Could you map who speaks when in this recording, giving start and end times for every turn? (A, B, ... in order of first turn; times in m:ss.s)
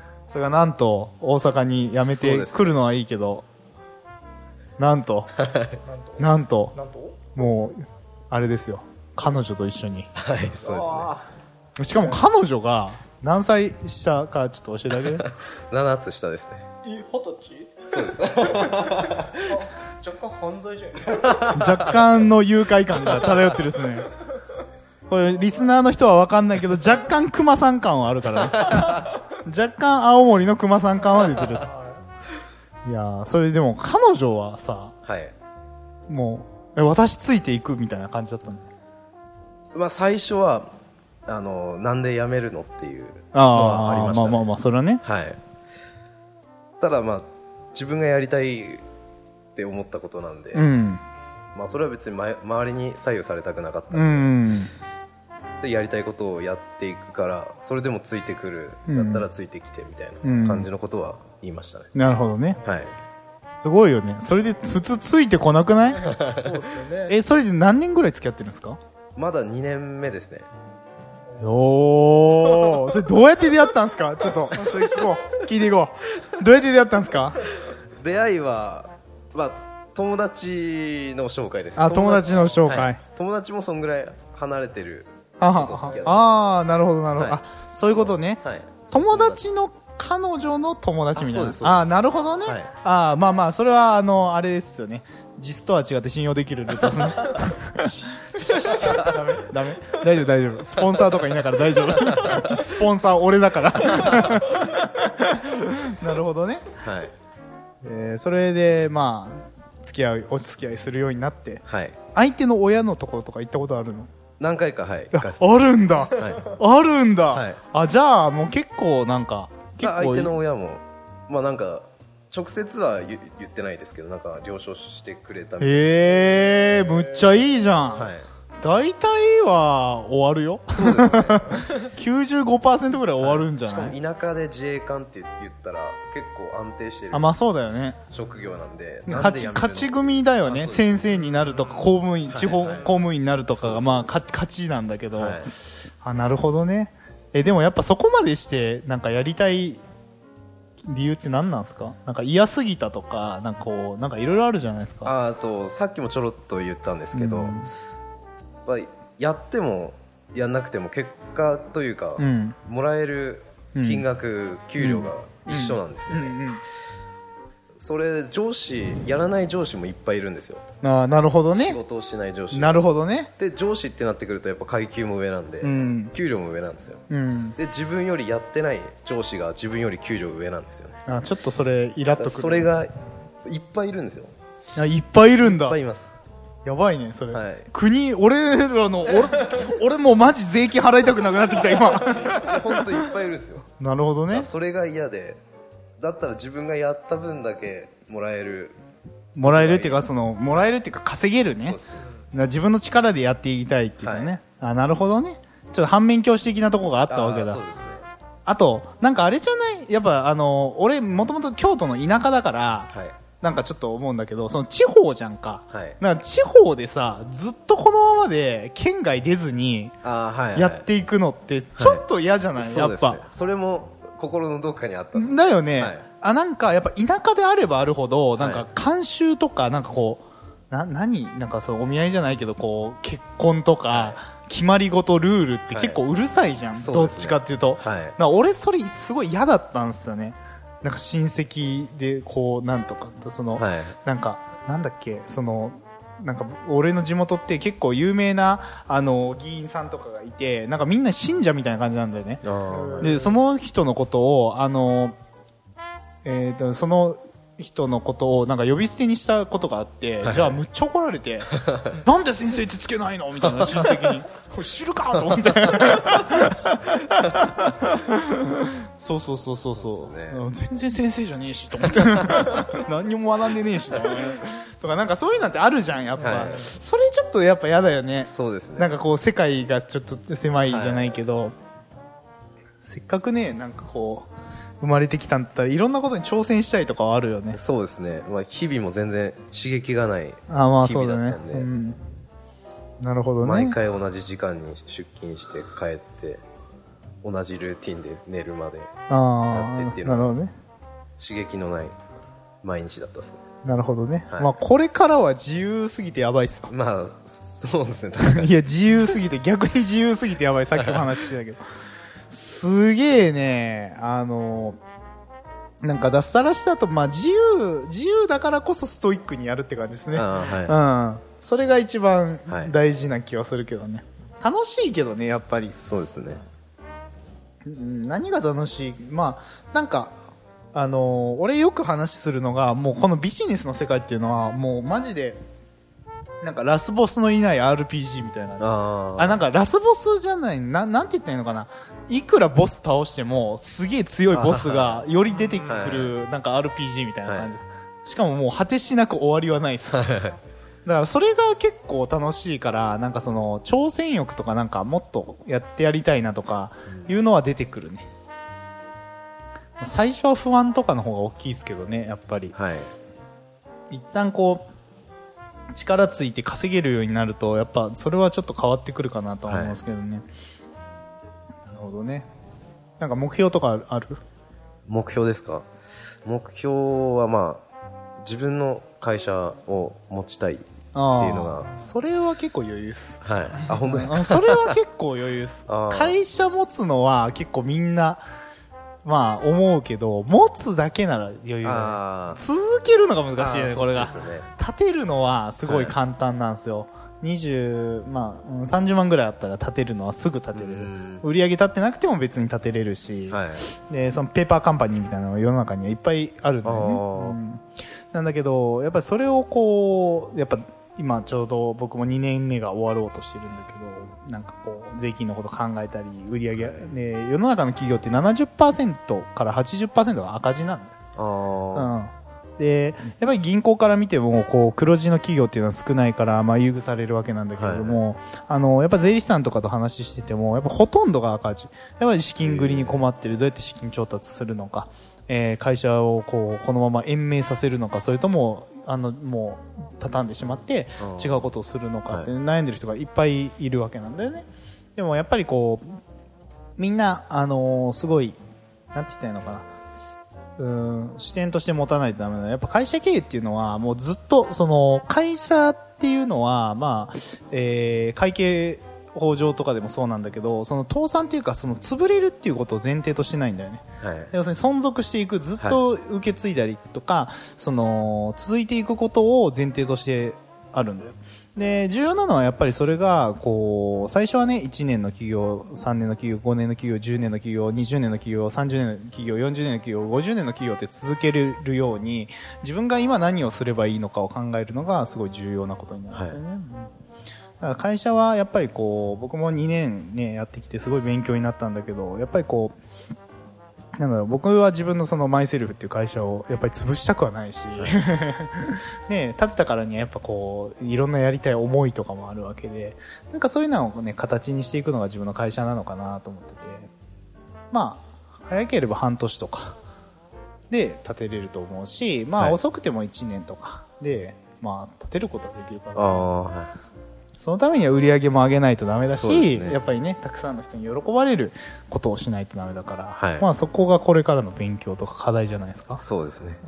0:00.3-0:03.5 A
0:02.0-0:02.8 B
0:04.8-0:05.3 A
0:05.4-0:05.8 B
0:06.2-0:06.8 A
0:06.8-0:07.1 C
0:07.3-0:10.1 A
0:10.2-0:11.2 B
0:10.7-0:11.2 C
0:11.8-0:15.3 A
0:15.2-0:16.6 B
0:16.8-0:21.4 C
0:17.9-0:19.3 B
0:21.2-0:21.7 B
0:21.4-0:24.1 A
0:25.1-0:31.7 A
0:32.8-0:35.0 A
0:35.0-0:35.3 B
0:36.1-0:38.7 A
0:39.7-0:40.7 B
0:41.3-0:44.5 B
0:43.3-0:45.0 A
0:45.0-0:45.4 B
0:46.8-0:48.8 B
0:49.6-0:50.6 B
0:50.5-0:51.0 A
0:51.5-0:54.4 B
0:53.9-0:54.7 A
0:55.6-1:01.9 B
0:58.9-0:59.3 A
1:00.2-1:00.7 A
1:02.0-1:02.6 A
1:02.6-1:02.9 B
1:03.6-1:06.3 A
1:06.1-1:06.5 B
1:06.4-1:07.1 C
1:07.0-1:08.8 A
1:09.2-1:10.5 B
1:11.4-1:17.4 A
1:17.7-1:26.4 B
1:21.8-1:23.0 A
1:25.4-1:46.7 A
1:28.0-1:29.4 B
1:31.2-1:32.7 B
1:38.1-1:39.2 B
1:46.8-1:47.1 B
1:47.8-1:54.1 A
1:51.7-1:52.0 B
1:54.4-1:56.5 B
1:55.1-2:00.4 A
1:57.3-1:57.6 B
1:59.8-2:06.7 B
2:05.6-2:08.1 A
2:08.0-2:08.3 B
2:08.6-2:14.0 A
2:10.7-2:11.6 B
2:13.2-2:17.4 B
2:17.1-2:18.0 A
2:18.1-2:20.9 B
2:19.1-2:29.8 A
2:22.3-2:22.9 B
2:23.5-2:24.2 B
2:25.2-2:25.5 B
2:30.8-2:35.1 A
2:35.0-2:37.6 B
2:37.1-2:37.7 A
2:38.7-2:46.4 B
2:42.2-2:42.6 A
2:43.8-2:44.1 A
2:44.8-2:46.6 A
2:47.8-2:50.6 B
2:50.8-2:51.8 A
2:51.5-2:57.0 B
2:52.5-2:53.3 A
2:55.6-2:56.1 A
2:57.1-2:57.6 A
2:57.6-3:01.0 B
3:01.1-3:02.7 A
3:02.1-3:02.9 B
3:03.4-3:04.3 B
3:04.8-3:05.8 A
3:05.4-3:06.1 B
3:06.6-3:12.8 A
3:07.3-3:07.7 B
3:12.0-3:13.7 B
3:13.8-3:14.5 A
3:14.3-3:15.4 B
3:16.0-3:18.8 B
3:19.4-3:21.8 A
3:19.4-3:20.1 B
3:21.6-3:22.2 B
3:22.3-3:27.6 A
3:24.0-3:24.4 B
3:27.1-3:28.1 B
3:28.5-3:40.0 A
3:32.9-3:33.2 B
3:35.7-3:36.0 B
3:40.0-3:40.9 B
3:40.6-3:43.2 A
3:41.8-3:42.0 B
3:42.6-3:46.0 B
3:45.2-4:12.4 A
3:48.4-3:48.7 B
3:53.9-3:54.2 B
3:55.7-3:56.0 B
3:56.7-3:58.2 B
4:03.6-4:04.0 B
4:12.4-4:13.2 B
4:12.8-4:13.1 C
4:13.0-4:15.2 A
4:16.2-4:41.6 A
4:20.2-4:20.6 B
4:21.6-4:22.0 B
4:29.8-4:30.4 B
4:36.2-4:36.7 B
4:38.2-4:38.9 B
4:40.7-4:41.2 B
4:42.8-4:44.3 A
4:44.8-4:47.6 A
4:47.5-4:51.7 B
4:50.5-4:52.0 A
4:53.0-4:53.8 A
4:53.4-4:56.4 B
4:57.2-4:58.9 B
4:59.1-5:00.6 A
4:59.5-5:00.3 B
5:01.2-5:02.0 B
5:02.6-5:03.4 B
5:03.6-5:06.7 A
5:04.3-5:04.6 B
5:06.7-5:08.5 B
5:08.2-5:11.6 A
5:12.3-5:14.8 A
5:15.8-5:25.8 A
5:20.1-5:20.8 B
5:22.5-5:22.8 B
5:25.8-5:26.4 B
5:27.6-5:30.2 A
5:30.7-5:35.4 A
5:36.4-5:50.1 A
5:38.6-5:39.4 B
5:44.3-5:45.1 B
5:45.7-5:46.2 B
5:47.3-5:47.5 B
5:49.9-5:50.4 B
5:50.8-5:58.1 A
5:56.9-5:57.2 B
5:59.8-6:02.6 A
6:02.5-6:02.9 B
6:03.9-6:04.7 A
6:05.7-6:10.3 A
6:09.5-6:09.8 B
6:11.7-6:12.3 A
6:13.0-6:14.2 A
6:14.9-6:15.7 B
6:16.2-6:17.6 B
6:18.2-6:21.8 B
6:20.9-6:28.2 A
6:23.2-6:24.8 B
6:25.7-6:26.2 B
6:29.0-7:01.0 A
6:31.6-6:32.4 B
6:33.4-6:34.5 B
6:35.7-6:36.0 B
6:40.5-6:41.3 B
6:43.3-6:43.7 B
6:46.6-6:47.4 B
6:56.6-6:57.0 B
7:01.2-7:01.9 B
7:01.8-7:26.0 A
7:07.6-7:08.0 B
7:12.4-7:13.0 B
7:21.0-7:21.5 B
7:26.8-7:28.4 A
7:28.9-7:29.7 A
7:30.6-8:06.9 A
7:44.0-7:44.3 B
8:06.1-8:06.4 B
8:07.6-8:12.8 A
8:14.0-8:26.9 A
8:27.7-8:29.8 A
8:30.7-8:36.4 A
8:36.0-8:36.7 B
8:37.4-8:46.0 A
8:39.1-8:39.8 B
8:43.2-8:43.5 B
8:46.0-8:46.6 B